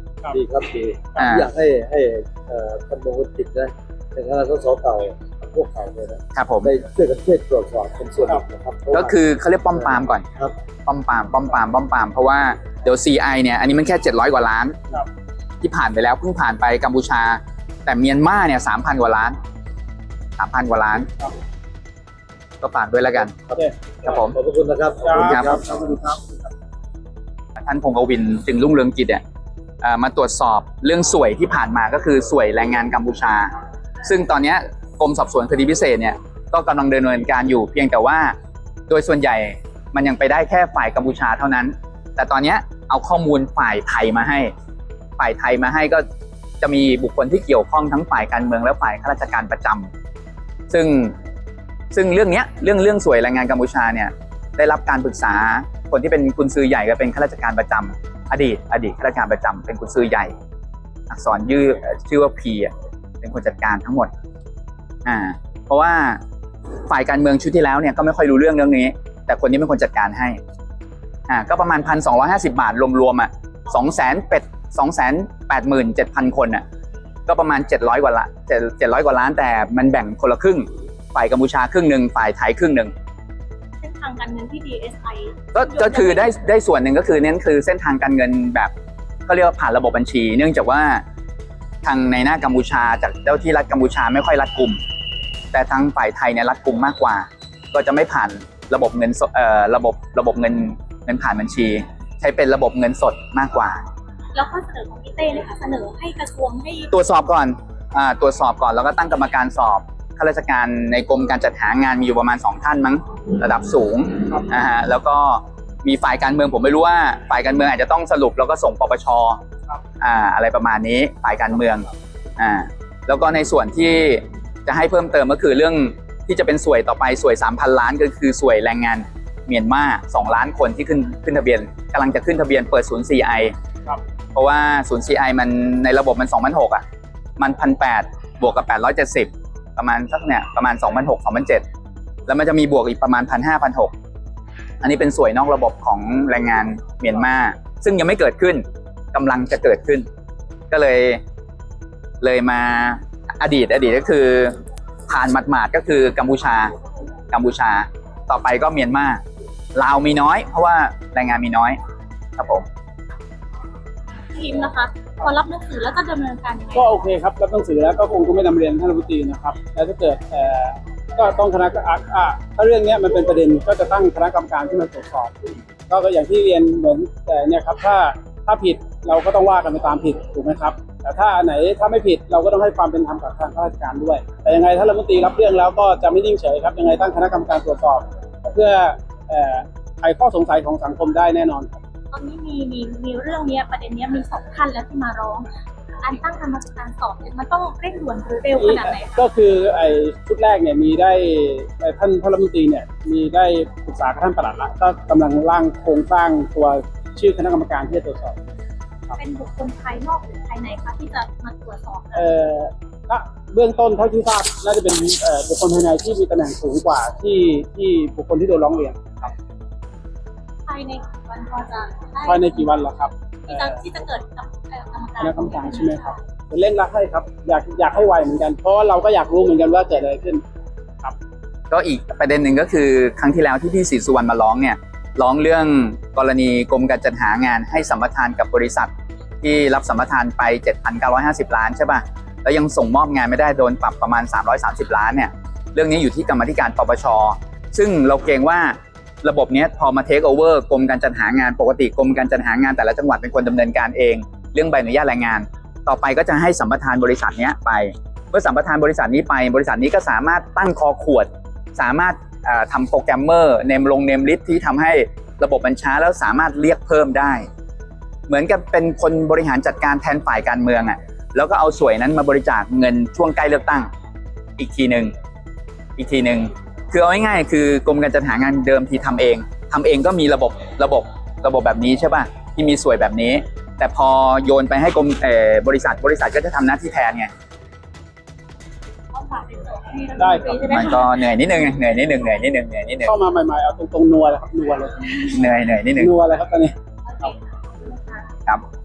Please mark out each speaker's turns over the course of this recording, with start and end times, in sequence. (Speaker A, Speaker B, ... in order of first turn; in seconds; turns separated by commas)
Speaker A: 0.3-9.2, Speaker B: 1.2-1.5, Speaker B: 6.3-6.7, Speaker B: 8.9-10.2, Speaker A: 9.7-10.6, Speaker B: 10.9-14.8, Speaker B: 15.6-19.4, Speaker B: 20.4-21.1, Speaker B: 22.6-23.3, Speaker A: 23.5-25.8, Speaker B: 24.0-24.4, Speaker C: 25.1-26.5, Speaker B: 25.2-25.6, Speaker B: 27.6-29.2, Speaker B: 29.8-33.5, Speaker B: 34.0-38.4, Speaker B: 38.9-44.5, Speaker B: 45.2-46.0, Speaker B: 46.6-49.9, Speaker B: 50.7-51.2, Speaker B: 51.9-60.3, Speaker B: 61.1-62.7, Speaker B: 63.2-64.1, Speaker B: 65.1-66.2, Speaker B: 66.8-70.4, Speaker B: 71.3-76.6, Speaker B: 77.3-82.9, Speaker D: 83.8-86.3, Speaker B: 85.5-88.7, Speaker B: 89.3-91.0, Speaker B: 91.8-94.8, Speaker B: 95.5-103.8, Speaker D: 104.3-106.9, Speaker B: 106.9-119.4, Speaker B: 120.0-133.5, Speaker B: 134.3-136.8, Speaker B: 137.4-141.6, Speaker B: 142.3-143.9, Speaker B: 144.8-150.1, Speaker B: 150.7-151.2, Speaker B: 152.2-154.5, Speaker B: 155.1-156.7, Speaker B: 157.3-159.2, Speaker B: 159.8-161.8, Speaker B: 162.4-162.7, Speaker D: 164.3-167.0, Speaker C: 166.8-175.3, Speaker C: 175.9-191.8, Speaker D: 192.1-195.5, Speaker D: 196.0-199.3, Speaker C: 198.6-208.4, Speaker D: 209.1-212.3, Speaker C: 212.2-219.3, Speaker D: 220.7-222.8, Speaker C: 222.3-223.7, Speaker D: 223.5-226.2, Speaker C: 225.2-230.4, Speaker B: 231.7-238.9, Speaker B: 239.4-267.5, Speaker B: 268.3-273.9, Speaker B: 274.6-275.1, Speaker B: 276.0-287.3, Speaker D: 289.1-291.1, Speaker C: 290.2-290.6, Speaker B: 290.7-293.1, Speaker C: 293.1-295.1, Speaker B: 295.3-296.1, Speaker C: 296.0-296.7, Speaker D: 297.1-298.3